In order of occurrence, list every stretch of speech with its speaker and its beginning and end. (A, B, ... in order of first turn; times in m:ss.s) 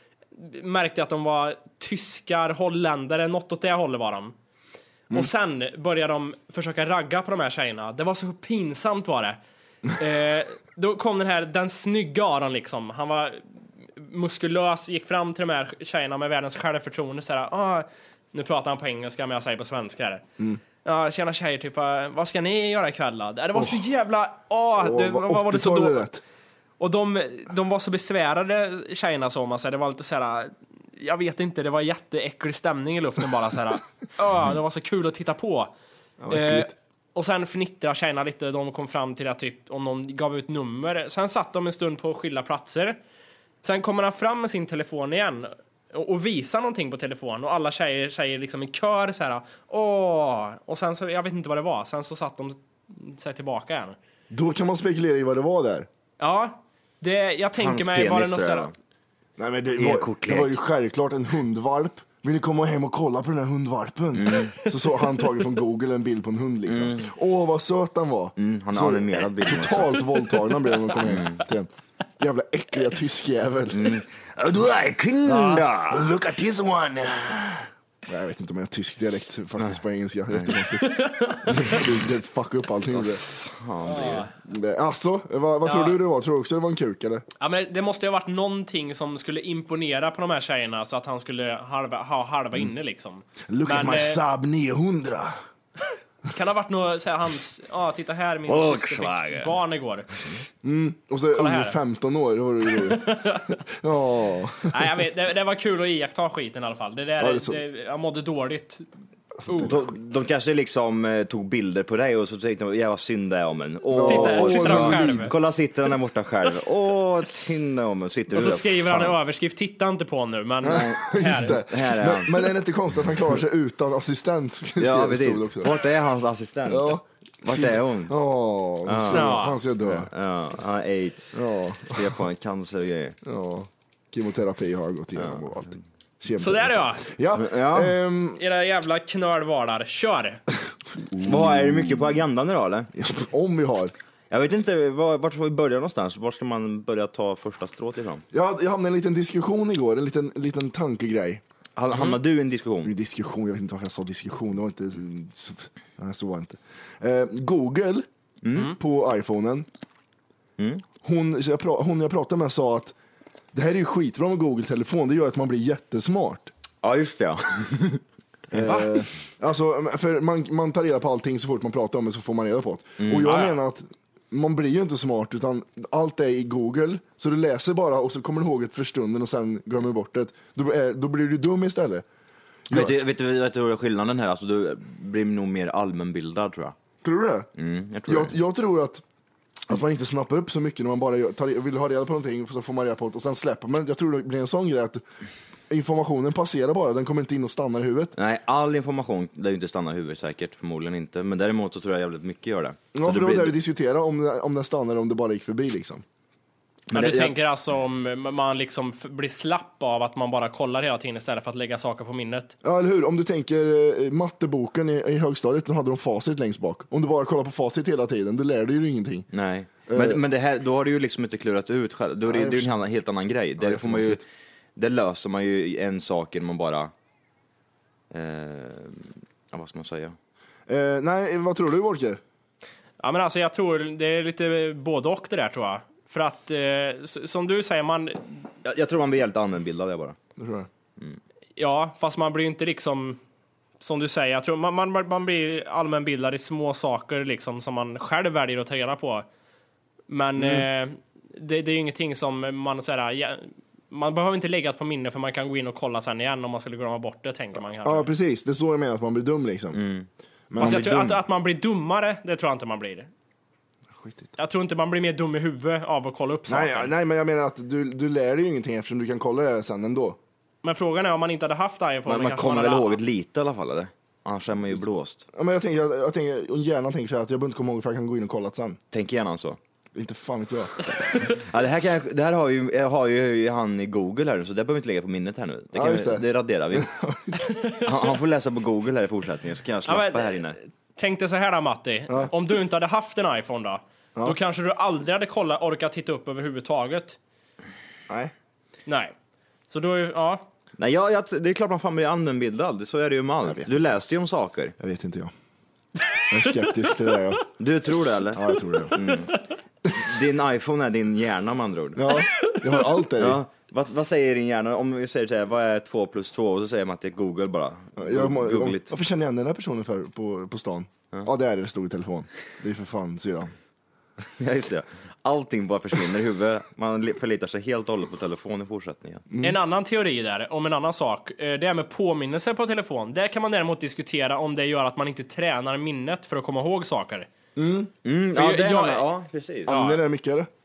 0:00.4-0:04.4 A
0:05.1-0:09.4 A
0:10.0-0:13.4 A
0:14.0-0:20.2 A
0:20.8-0:26.0 A
0:23.6-0:23.8 B
0:24.8-0:26.2 B
0:26.8-0:35.7 A
0:36.2-0:36.7 B
0:36.3-0:43.0 A
0:43.6-0:54.0 A
0:54.3-0:55.9 B
0:56.2-0:58.7 A
0:57.6-0:58.7 C
0:59.4-1:14.0 B
0:59.8-1:00.6 C
1:04.2-1:04.6 C
1:06.7-1:07.1 C
1:08.4-1:10.1 C
1:11.0-1:11.4 C
1:13.7-1:16.1 C
1:15.2-1:23.2 B
1:20.3-1:20.6 C
1:20.8-1:21.8 A
1:22.9-1:24.3 C
1:23.8-1:24.3 A
1:24.4-1:27.2 B
1:25.6-1:26.0 A
1:27.4-1:34.2 A
1:33.5-1:35.4 B
1:36.3-1:40.1 A
1:38.5-1:39.6 C
1:40.6-1:44.9 B
1:41.3-1:41.8 A
1:42.8-1:43.6 A
1:44.7-1:48.9 A
1:47.2-1:47.6 B
1:49.4-1:49.8 B
1:49.5-1:49.8 A
1:49.6-1:59.2 C
1:53.9-1:55.3 B
1:54.0-1:55.3 A
1:58.3-2:01.6 A
2:00.6-2:05.7 B
2:00.7-2:02.5 C
2:04.8-2:08.2 C
2:06.7-2:10.1 B
2:08.9-2:13.2 C
2:09.1-2:09.6 A
2:11.3-2:12.2 B
2:13.2-2:18.4 B
2:16.4-2:17.0 A
2:17.4-2:18.0 C
2:18.4-2:20.4 A
2:20.9-2:22.2 B
2:21.2-2:22.9 C
2:22.9-2:23.9 B
2:24.3-2:28.2 C
2:28.3-2:31.4 B
2:31.8-2:32.9 C
2:32.8-2:38.1 B
2:38.4-2:38.7 C
2:38.6-2:39.7 B
2:40.6-2:40.8 C
2:41.0-2:43.0 B
2:43.5-2:46.5 B
2:46.8-2:48.0 C
2:48.5-3:02.0 B
2:48.6-2:48.9 A
2:53.0-2:53.3 C
2:53.2-2:53.6 A
3:02.7-3:03.0 B
3:02.7-3:06.8 C
3:07.0-3:07.5 B
3:07.6-3:08.4 C
3:08.1-3:09.0 B
3:09.7-3:15.0 B
3:15.7-3:18.1 B
3:18.2-3:23.6 C
3:22.9-3:26.0 B
3:26.9-3:27.4 C
3:26.9-3:32.6 A
3:32.6-3:39.3 B
3:39.3-3:44.2 C
3:39.9-3:40.2 B
3:42.3-3:42.7 B
3:43.6-3:44.2 B
3:44.8-3:46.9 C
3:48.1-3:50.2 C
3:50.7-3:52.2 B
3:53.0-3:58.4 A
3:58.6-4:00.2 C
4:00.4-4:00.7 B
4:01.6-4:03.2 A
4:03.8-4:09.3 A
4:10.1-4:18.1 A
4:10.4-4:10.7 B
4:17.8-4:19.8 B
4:19.7-4:21.2 C
4:20.5-4:20.9 B
4:20.6-4:23.1 A
4:23.9-4:24.3 B
4:24.4-4:26.9 A
4:26.5-4:30.2 B
4:30.6-4:33.0 A
4:32.1-4:35.2 C
4:35.3-4:38.8 B
4:38.9-4:39.6 C
4:40.0-4:40.8 B
4:41.1-4:46.9 C
4:45.7-4:47.5 B
4:47.6-4:47.9 A
4:47.8-4:50.6 C
4:49.9-4:57.2 A
4:58.1-4:58.3 B
4:58.9-4:59.1 A
4:59.7-5:00.4 A
5:00.8-5:04.8 C
5:03.5-5:03.8 B
5:04.8-5:05.3 B
5:06.3-5:07.5 B
5:07.6-5:09.3 C
5:08.3-5:09.0 B
5:09.9-5:12.1 C
5:12.0-5:13.4 B
5:12.1-5:12.6 A
5:13.2-5:18.9 C
5:18.0-5:23.5 B
5:24.4-5:29.3 C
5:29.3-5:29.6 B
5:29.4-5:37.3 A
5:37.6-5:37.9 B
5:38.0-5:39.7 C
5:38.3-5:39.1 A
5:39.7-5:40.5 B
5:39.7-5:40.0 A